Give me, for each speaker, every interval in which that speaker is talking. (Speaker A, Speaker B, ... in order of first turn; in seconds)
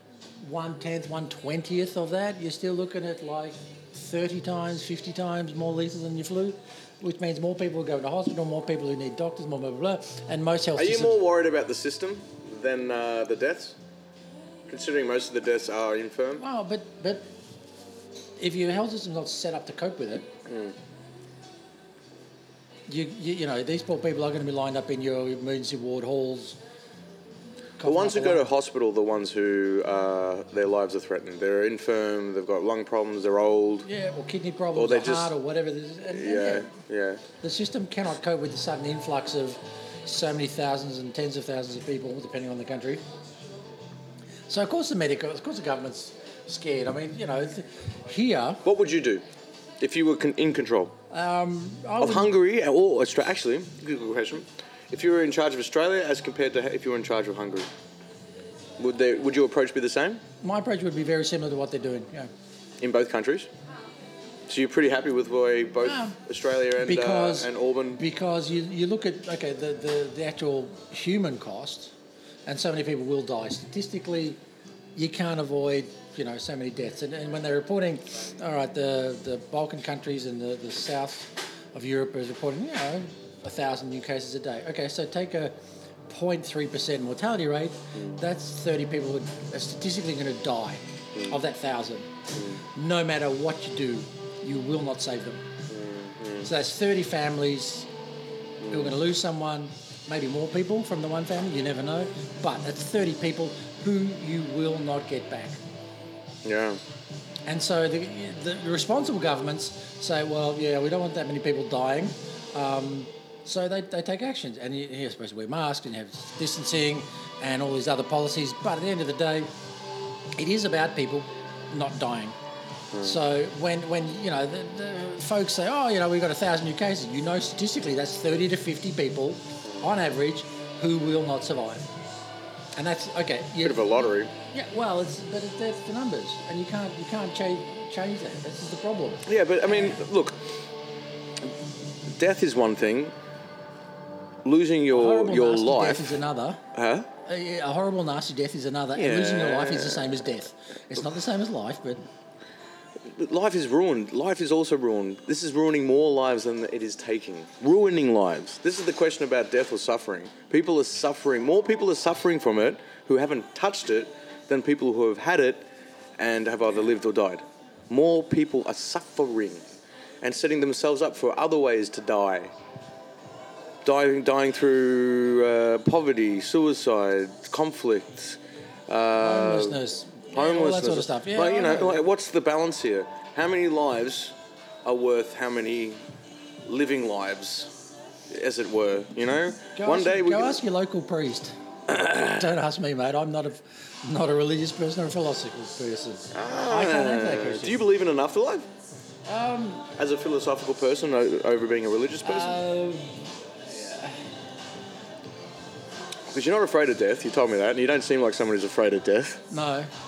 Speaker A: 0.4-11.2, 16.4-17.2, 18.4-20.3, 22.9-26.6, 27.8-28.5, 33.9-36.7, 37.4-43.0, 44.5-48.6, 51.1-52.4, 60.4-62.3, 65.8-66.2, 66.8-71.9, 72.5-74.4, 74.9-85.5, 86.1-92.1, 92.7-95.4, 96.4-97.9, 98.7-105.6, 107.5-119.5, 120.4-122.3, 123.0-131.9, 132.8-140.0, 144.9-146.6, 147.2-152.0, 179.2-182.0, 189.7-197.8, 199.2-199.9, 202.2-204.2, 209.5-209.9
Speaker B: 10.7-13.8, 14.7-16.4, 20.4-20.7, 27.8-33.9, 34.7-35.3, 36.1-37.2, 48.6-49.2, 49.8-50.9, 52.0-57.7, 58.8-60.2, 62.8-63.5, 64.5-68.0, 87.9-88.2, 95.7-96.5, 98.6-99.0, 106.4-106.8, 122.9-123.2, 133.6-134.3, 139.2-140.4, 142.0-143.1, 144.4-146.1, 146.7-147.1, 148.9-150.2, 153.1-165.7, 166.2-169.6, 170.2-172.5, 173.8-179.8, 180.3-186.0, 186.7-187.7, 188.3-190.6, 191.9-192.4, 196.3-198.7, 200.0-202.6, 206.3-209.4